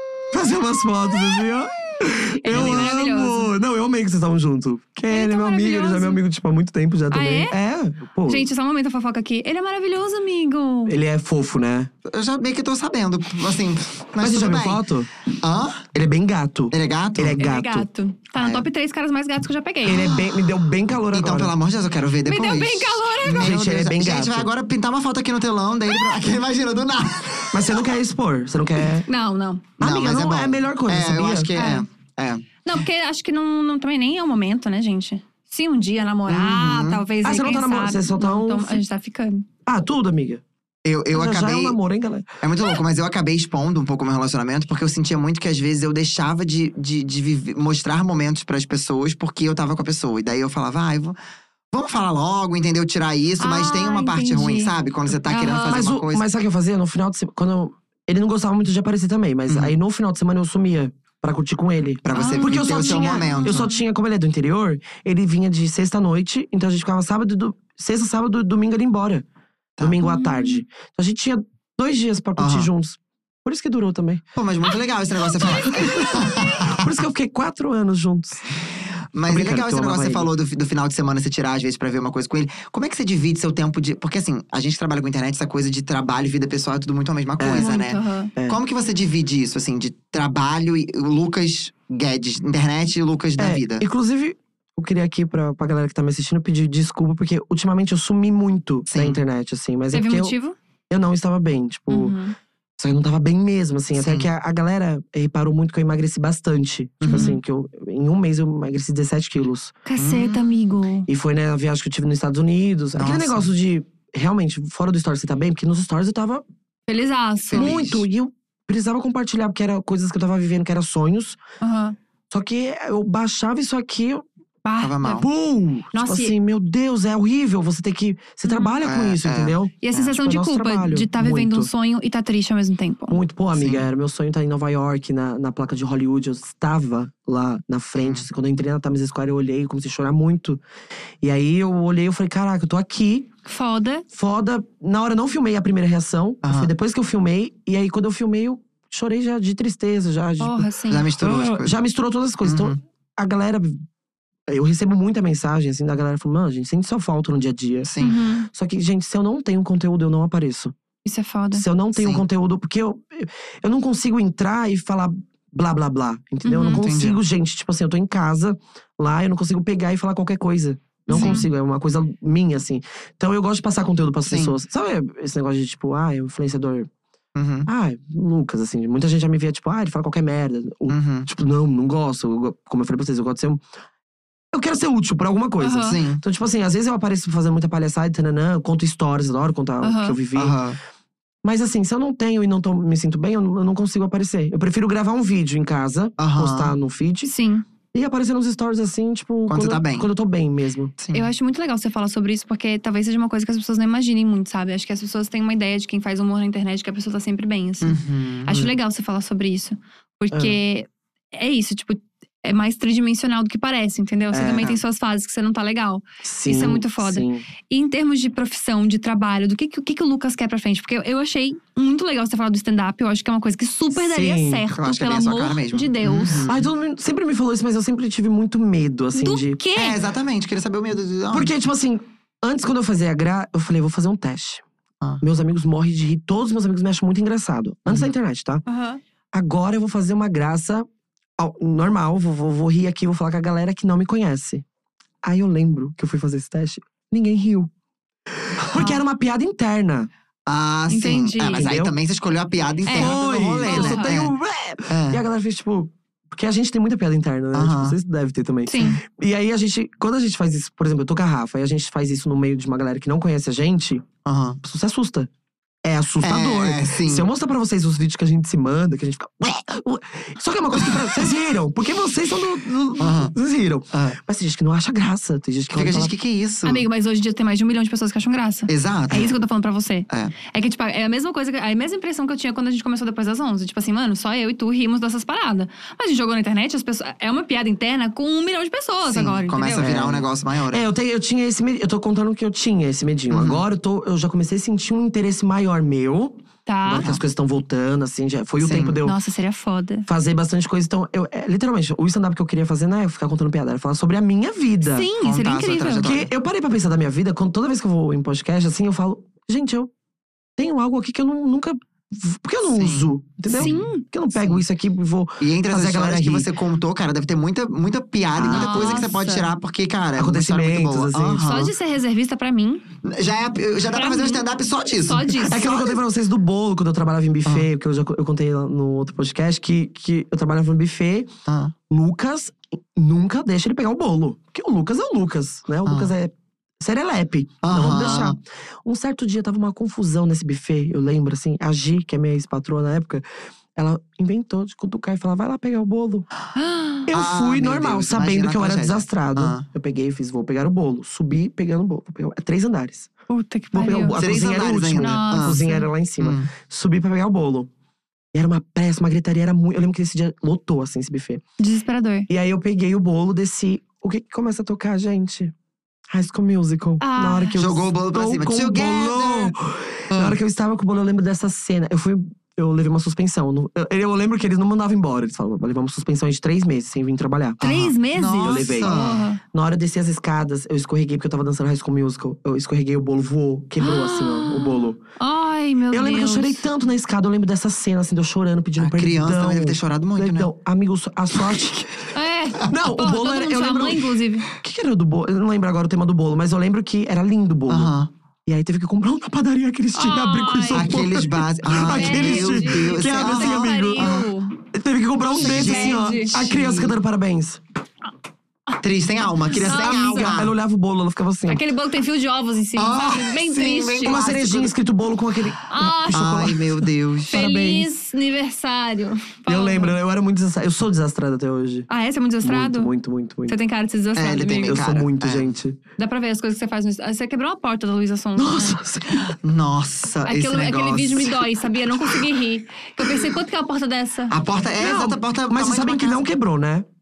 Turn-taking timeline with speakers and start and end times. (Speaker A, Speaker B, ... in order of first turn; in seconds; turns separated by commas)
Speaker A: 0.3-8.5, Speaker B: 2.4-3.5, Speaker C: 2.5-2.9, Speaker B: 5.1-6.2, Speaker B: 7.1-7.6, Speaker B: 8.3-11.0, Speaker A: 10.9-11.9, Speaker C: 12.1-14.8, Speaker A: 14.2-15.1, Speaker C: 15.4-15.9, Speaker A: 15.9-17.9, Speaker C: 16.7-17.5, Speaker B: 17.4-20.2, Speaker C: 18.4-18.6, Speaker A: 19.9-21.5, Speaker C: 21.1-28.0, Speaker B: 22.3-23.5, Speaker A: 23.4-24.5, Speaker A: 27.5-29.1, Speaker B: 29.1-29.7, Speaker A: 29.8-31.5, Speaker C: 29.8-32.6, Speaker B: 31.6-31.9, Speaker B: 32.6-39.5, Speaker C: 36.3-37.0, Speaker A: 37.2-38.8, Speaker A: 39.7-40.4, Speaker C: 40.9-41.8, Speaker A: 41.1-42.3, Speaker C: 42.4-51.2, Speaker C: 51.7-56.3, Speaker B: 53.4-54.7, Speaker B: 55.2-55.9, Speaker A: 55.7-69.2, Speaker C: 59.5-59.8, Speaker C: 62.0-63.7, Speaker B: 62.1-63.8, Speaker A: 69.8-74.2, Speaker B: 70.0-70.6, Speaker C: 72.4-72.7, Speaker C: 74.4-77.0, Speaker A: 75.4-78.5, Speaker C: 79.1-93.8, Speaker A: 79.3-80.3, Speaker A: 87.4-87.7, Speaker B: 87.4-88.3, Speaker A: 93.4-100.3, Speaker C: 98.9-99.2, Speaker B: 99.9-100.6, Speaker A: 100.9-102.2, Speaker B: 101.9-102.4, Speaker A: 102.8-109.7, Speaker C: 104.0-104.3, Speaker C: 107.0-107.3, Speaker B: 107.1-107.4, Speaker B: 109.9-111.1, Speaker C: 110.0-110.5, Speaker A: 111.1-116.4, Speaker C: 113.0-113.5, Speaker B: 116.9-117.8, Speaker C: 117.5-118.0, Speaker A: 117.6-121.4, Speaker B: 121.6-122.0, Speaker A: 122.3-124.2, Speaker B: 124.6-125.3, Speaker C: 124.8-125.3, Speaker A: 125.1-131.7, Speaker B: 125.9-126.3, Speaker B: 128.4-128.7, Speaker C: 128.8-130.1, Speaker B: 129.8-133.2, Speaker A: 133.1-140.6, Speaker C: 133.6-133.9, Speaker C: 138.0-138.2, Speaker A: 141.2-143.3, Speaker B: 143.5-144.1, Speaker A: 144.1-153.8, Speaker C: 146.4-146.7, Speaker B: 150.4-151.1, Speaker C: 150.9-151.8, Speaker C: 152.4-152.8, Speaker A: 154.5-157.9, Speaker C: 157.8-158.2, Speaker B: 158.0-158.5, Speaker A: 158.5-160.7, Speaker B: 161.0-161.6, Speaker A: 161.5-176.9, Speaker C: 162.0-162.2, Speaker B: 166.4-166.9, Speaker C: 166.6-167.2, Speaker B: 171.1-171.5, Speaker C: 171.1-171.4, Speaker C: 174.3-174.6, Speaker C: 177.3-177.7, Speaker A: 177.7-183.6, Speaker C: 180.9-181.3, Speaker A: 184.5-190.6, Speaker B: 185.6-186.0, Speaker C: 185.9-186.2, Speaker B: 189.8-190.2, Speaker C: 190.3-190.8, Speaker A: 191.4-197.3, Speaker C: 196.2-196.8, Speaker B: 197.2-197.6, Speaker A: 197.9-200.9, Speaker C: 199.5-200.1, Speaker C: 201.0-201.3, Speaker B: 201.1-226.4, Speaker C: 207.8-208.7, Speaker A: 210.3-210.6, Speaker A: 214.3-214.7, Speaker A: 216.2-217.5, Speaker A: 223.9-224.6, Speaker C: 224.8-226.7, Speaker A: 226.5-229.6, Speaker B: 229.1-230.0, Speaker C: 229.8-231.5, Speaker A: 231.3-234.6, Speaker A: 235.2-238.6, Speaker C: 237.9-238.1, Speaker B: 238.7-239.0, Speaker A: 239.3-240.8, Speaker A: 241.4-244.6, Speaker A: 245.2-247.7, Speaker A: 248.5-250.1, Speaker B: 248.7-249.0, Speaker C: 250.5-254.3, Speaker B: 250.9-251.7, Speaker A: 251.5-251.9, Speaker B: 252.9-254.2, Speaker A: 252.9-264.1, Speaker C: 254.9-255.2, Speaker C: 257.5-258.0, Speaker B: 258.7-259.0, Speaker C: 264.2-264.6, Speaker A: 264.6-265.3, Speaker A: 265.8-276.1, Speaker C: 266.2-267.3, Speaker C: 270.8-271.2, Speaker C: 273.0-273.3, Speaker C: 273.9-274.2, Speaker C: 275.7-276.9, Speaker B: 276.6-289.9, Speaker C: 278.7-279.4, Speaker C: 289.1-290.9, Speaker A: 289.8-299.2, Speaker C: 293.3-293.6, Speaker B: 296.7-297.1, Speaker C: 298.6-299.0, Speaker B: 299.0-300.1, Speaker A: 300.1-305.1, Speaker B: 304.8-306.1, Speaker C: 305.2-306.3, Speaker A: 306.0-309.9, Speaker A: 310.6-316.5, Speaker C: 312.7-313.8, Speaker B: 313.5-314.1, Speaker C: 314.4-314.6, Speaker C: 315.4-321.7, Speaker A: 318.4-319.1, Speaker B: 318.4-319.5, Speaker A: 320.2-321.6, Speaker B: 321.4-322.8, Speaker C: 323.0-325.3, Speaker B: 323.9-324.4, Speaker B: 325.0-326.0, Speaker A: 325.4-331.3, Speaker C: 331.5-331.7, Speaker A: 331.9-346.3, Speaker C: 335.9-336.1, Speaker C: 337.6-338.4, Speaker B: 346.6-347.1, Speaker A: 347.1-353.1, Speaker C: 347.1-349.7, Speaker B: 353.3-354.2, Speaker A: 353.7-357.7, Speaker C: 354.1-355.6, Speaker B: 355.0-355.9, Speaker C: 356.2-356.5, Speaker A: 358.3-361.4, Speaker B: 361.6-362.3, Speaker A: 362.3-365.5, Speaker A: 366.1-377.7, Speaker B: 367.0-367.6, Speaker C: 367.6-369.5, Speaker C: 370.1-370.4, Speaker B: 377.6-379.4, Speaker C: 377.6-379.2, Speaker A: 378.4-385.0, Speaker B: 383.8-386.6, Speaker A: 385.9-392.1, Speaker C: 388.8-390.5, Speaker B: 392.1-394.5, Speaker A: 392.7-397.9, Speaker C: 397.7-398.1, Speaker A: 398.5-407.6, Speaker B: 399.9-400.9, Speaker C: 400.7-404.3, Speaker B: 401.8-404.6, Speaker B: 405.3-406.9, Speaker C: 405.4-406.1, Speaker C: 408.8-410.5, Speaker B: 409.5-410.4, Speaker A: 409.8-411.7, Speaker B: 411.5-414.3, Speaker C: 412.8-414.7, Speaker A: 414.0-417.9, Speaker B: 415.7-416.4, Speaker C: 416.1-417.4, Speaker B: 417.3-420.0, Speaker A: 419.5-421.9, Speaker B: 421.9-422.9, Speaker A: 422.4-423.6, Speaker B: 423.5-424.8, Speaker C: 424.2-425.5, Speaker A: 424.7-425.8, Speaker B: 426.0-428.8, Speaker A: 428.4-429.3, Speaker C: 429.4-431.5, Speaker B: 430.2-434.4, Speaker C: 434.3-436.2, Speaker A: 434.8-436.9